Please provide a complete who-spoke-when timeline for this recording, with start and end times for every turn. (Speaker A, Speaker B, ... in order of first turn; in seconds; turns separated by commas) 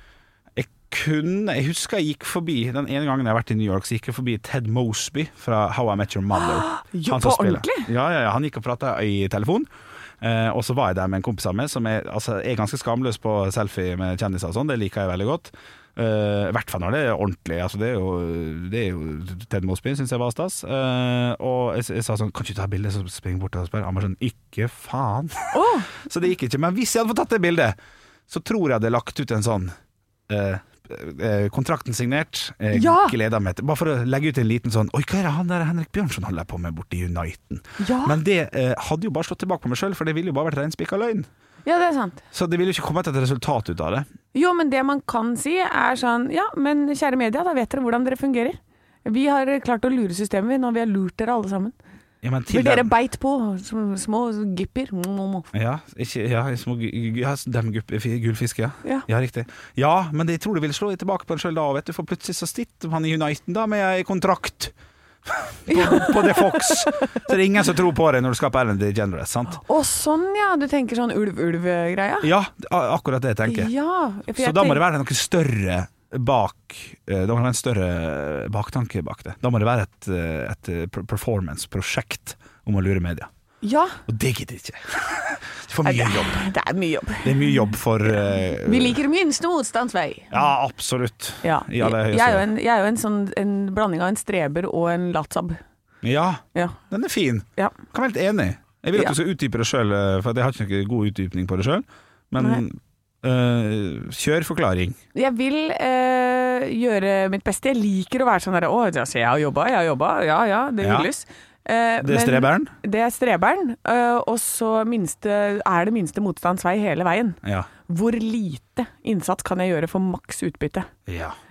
Speaker A: 0.6-9.7, Speaker B: 6.3-7.9, Speaker A: 10.2-27.8, Speaker B: 25.5-25.9, Speaker A: 28.3-29.8, Speaker A: 30.3-41.3, Speaker B: 32.7-33.2, Speaker B: 37.8-38.2, Speaker B: 41.6-42.2, Speaker A: 42.3-44.1, Speaker B: 44.3-51.8, Speaker A: 52.2-52.9, Speaker B: 52.5-55.5, Speaker A: 55.5-64.7, Speaker A: 65.2-69.6, Speaker B: 65.7-67.2, Speaker B: 69.6-72.3, Speaker A: 72.2-73.7, Speaker B: 73.5-74.8, Speaker A: 74.4-83.3, Speaker B: 83.6-84.0, Speaker A: 84.1-86.5, Speaker B: 85.8-90.4, Speaker A: 87.2-89.0, Speaker A: 90.3-92.5, Speaker B: 91.4-95.6, Speaker A: 96.0-105.0, Speaker B: 105.2-120.9, Speaker A: 110.8-111.1, Speaker A: 112.0-112.7, Speaker A: 117.4-117.7, Speaker A: 121.1-121.3